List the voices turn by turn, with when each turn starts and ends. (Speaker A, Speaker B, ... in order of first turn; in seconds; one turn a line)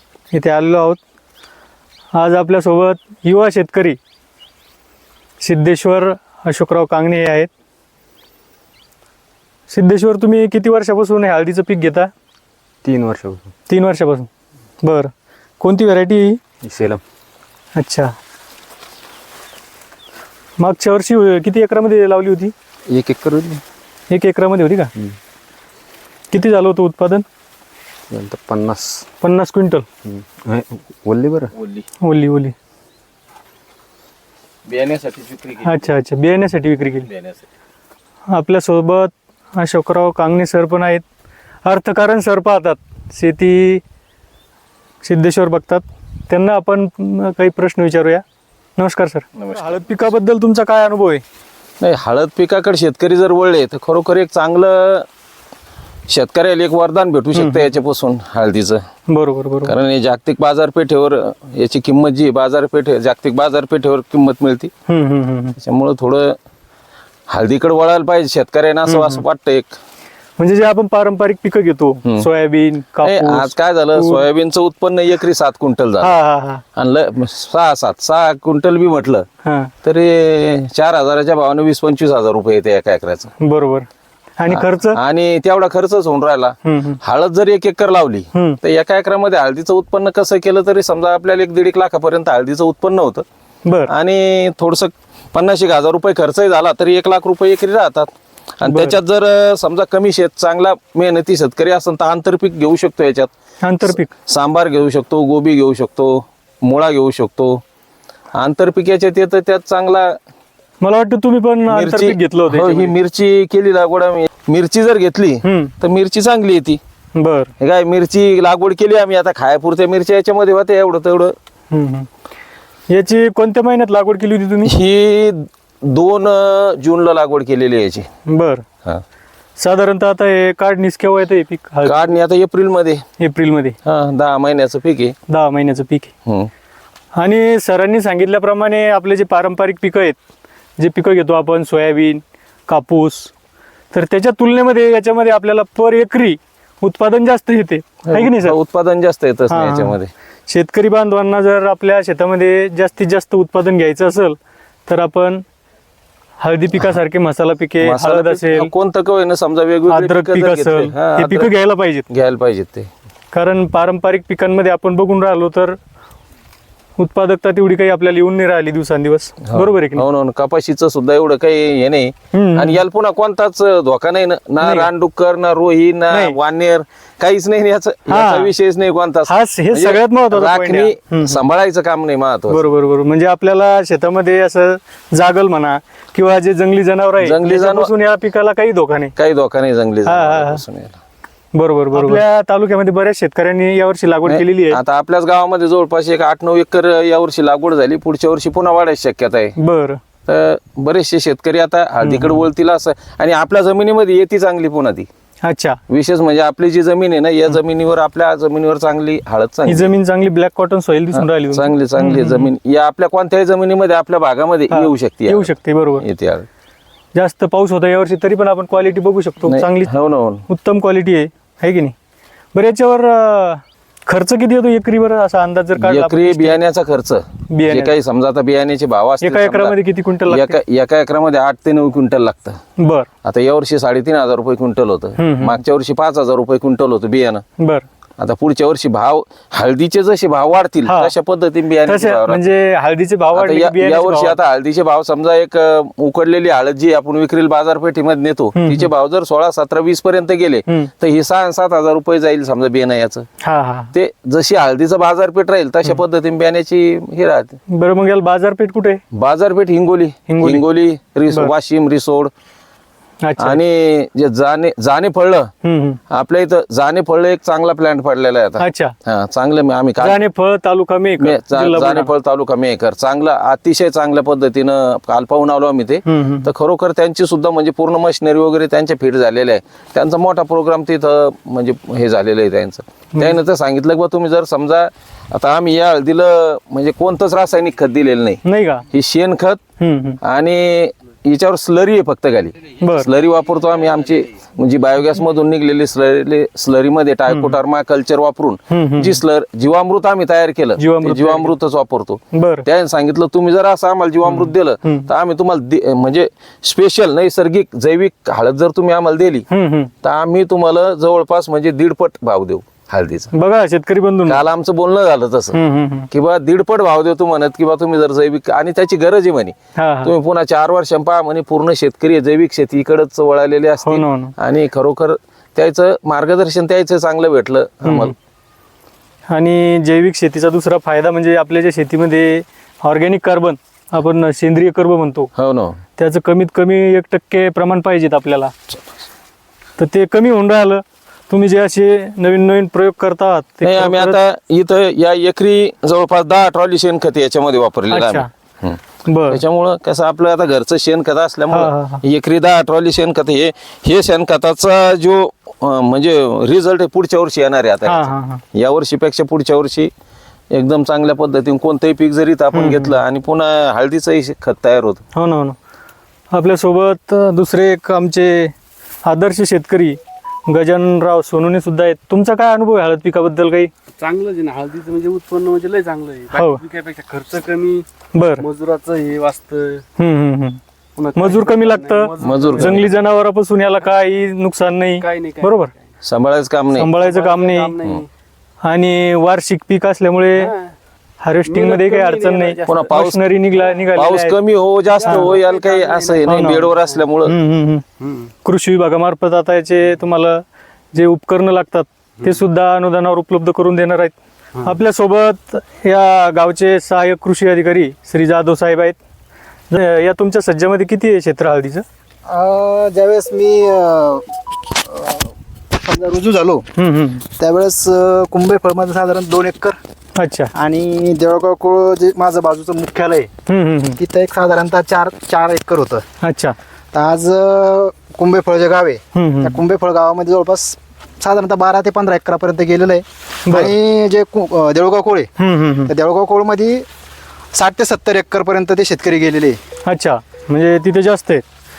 Speaker A: 0.3-1.0
Speaker A: 2.1-4.0
Speaker A: 5.4-7.5
Speaker A: 9.7-12.1
Speaker B: 12.8-13.5
Speaker A: 13.7-14.3
Speaker A: 14.8-16.4
Speaker B: 16.6-17.0
Speaker A: 17.8-18.1
Speaker A: 20.6-22.5
Speaker B: 22.9-23.6
Speaker A: 24.1-24.9
Speaker A: 26.3-27.2
Speaker B: 28.1-29.1
Speaker A: 29.2-29.9
Speaker B: 30.1-31.5
Speaker C: 31.6-31.9
Speaker A: 32.0-32.5
Speaker C: 34.7-35.9
Speaker A: 35.6-37.1
Speaker C: 37.1-37.4
Speaker A: 38.3-41.0
Speaker A: 41.6-43.8
Speaker A: 45.0-48.2
Speaker A: 48.8-51.2
Speaker C: 51.8-55.0
Speaker C: 56.1-58.8
Speaker A: 57.3-57.6
Speaker A: 59.1-59.7
Speaker C: 59.6-64.7
Speaker A: 64.9-65.6
Speaker C: 65.6-66.3
Speaker C: 67.3-69.8
Speaker A: 68.9-69.2
Speaker A: 70.4-74.2
Speaker C: 73.0-76.2
Speaker A: 76.0-76.6
Speaker C: 76.8-79.2
Speaker A: 79.4-79.7
Speaker C: 79.8-83.3
Speaker A: 83.4-83.9
Speaker A: 84.4-85.0
Speaker C: 84.5-93.2
Speaker A: 86.6-87.0
Speaker A: 93.6-93.9
Speaker C: 93.9-98.1
Speaker C: 98.6-103.3
Speaker A: 98.7-99.0
Speaker A: 103.6-104.1
Speaker C: 103.8-107.6
Speaker C: 108.3-110.1
Speaker A: 110.8-112.9
Speaker C: 111.7-116.8
Speaker A: 115.4-115.7
Speaker A: 117.2-117.5
Speaker C: 117.6-121.3
Speaker A: 121.7-122.1
Speaker A: 122.9-124.7
Speaker C: 124.6-128.1
Speaker A: 128.3-128.6
Speaker A: 129.6-132.1
Speaker C: 131.8-133.0
Speaker A: 133.2-133.8
Speaker C: 133.8-135.1
Speaker A: 135.3-136.1
Speaker A: 137.2-140.2
Speaker A: 140.8-143.3
Speaker A: 143.9-148.6
Speaker C: 148.1-150.1
Speaker A: 149.5-149.9
Speaker A: 150.5-154.3
Speaker A: 154.9-155.4
Speaker A: 156.4-158.7
Speaker C: 157.8-161.5
Speaker A: 159.9-162.0
Speaker C: 162.1-162.9
Speaker A: 163.3-165.8
Speaker A: 167.0-170.0
Speaker C: 169.5-182.6
Speaker A: 172.3-172.8
Speaker A: 174.6-174.9
Speaker A: 176.1-176.3
Speaker A: 178.1-178.5
Speaker A: 179.3-181.4
Speaker A: 182.5-189.1
Speaker C: 187.2-187.9
Speaker C: 189.2-191.0
Speaker A: 190.1-190.6
Speaker A: 191.5-194.8
Speaker C: 194.2-199.5
Speaker A: 199.6-200.0
Speaker C: 200.3-205.1
Speaker A: 202.0-202.4
Speaker A: 205.4-205.8
Speaker C: 205.9-209.9
Speaker A: 209.7-212.5
Speaker C: 211.1-216.5
Speaker A: 214.7-216.0
Speaker A: 217.1-219.9
Speaker C: 219.4-220.4
Speaker A: 220.5-221.9
Speaker A: 222.5-226.6
Speaker C: 225.8-232.6
Speaker A: 227.5-227.9
Speaker A: 229.2-230.6
Speaker A: 232.8-233.1
Speaker C: 233.2-237.4
Speaker A: 235.2-235.6
Speaker A: 237.6-237.8
Speaker C: 238.2-242.4
Speaker A: 240.8-241.1
Speaker A: 241.8-244.3
Speaker C: 243.3-253.3
Speaker A: 248.6-248.9
Speaker A: 253.4-253.9
Speaker C: 253.9-257.6
Speaker A: 257.7-259.0
Speaker C: 259.1-262.3
Speaker A: 260.3-260.6
Speaker A: 263.2-263.6
Speaker C: 263.4-265.5
Speaker A: 265.6-266.0
Speaker C: 266.1-270.2
Speaker A: 268.6-268.9
Speaker A: 270.0-272.1
Speaker C: 271.2-289.6
Speaker A: 276.1-276.5
Speaker A: 288.4-288.8
Speaker A: 289.8-290.2
Speaker C: 290.2-309.5
Speaker A: 292.8-293.1
Speaker A: 297.3-297.6
Speaker A: 298.7-299.2
Speaker A: 300.8-301.5
Speaker A: 302.3-302.6
Speaker A: 304.2-305.1
Speaker A: 309.5-309.9
Speaker C: 310.0-313.3
Speaker A: 313.3-314.4
Speaker C: 314.3-315.6
Speaker A: 315.5-316.1
Speaker C: 316.1-328.1
Speaker A: 319.8-320.1
Speaker A: 323.8-324.3
Speaker A: 327.8-328.1
Speaker A: 329.3-335.3
Speaker C: 335.4-335.8
Speaker A: 336.0-338.5
Speaker A: 339.8-344.2
Speaker C: 343.6-359.9
Speaker A: 347.9-348.3
Speaker A: 349.1-349.4
Speaker A: 351.5-352.0
Speaker A: 357.9-358.4
Speaker C: 360.5-365.0
Speaker A: 362.5-362.9
Speaker A: 365.1-365.6
Speaker A: 366.3-368.5
Speaker A: 369.0-373.7
Speaker D: 374.0-377.9
Speaker A: 376.3-376.6
Speaker A: 378.1-378.4
Speaker D: 378.4-379.8
Speaker A: 380.0-380.6
Speaker D: 381.0-382.8
Speaker A: 381.1-385.7
Speaker C: 382.2-382.9
Speaker D: 385.0-385.5
Speaker C: 386.0-386.9
Speaker A: 386.7-387.7
Speaker D: 387.0-388.1
Speaker A: 388.6-390.5
Speaker D: 390.4-390.7
Speaker A: 391.2-394.3
Speaker D: 391.4-392.9
Speaker C: 392.7-393.2
Speaker C: 393.9-397.3
Speaker D: 394.9-397.0
Speaker A: 395.1-395.4
Speaker A: 396.2-396.6
Speaker A: 397.2-397.8
Speaker A: 398.4-400.4
Speaker A: 400.9-409.0
Speaker A: 409.7-411.8
Speaker E: 412.3-416.6
Speaker A: 416.8-417.2
Speaker E: 417.4-419.8
Speaker A: 420.2-420.5
Speaker E: 420.5-423.3
Speaker A: 423.5-424.0
Speaker E: 424.0-426.0
Speaker A: 426.2-426.5
Speaker E: 426.9-435.3
Speaker A: 429.1-429.6
Speaker A: 433.4-433.7
Speaker A: 435.4-435.9
Speaker E: 435.9-436.9
Speaker E: 437.5-439.6
Speaker A: 439.8-441.4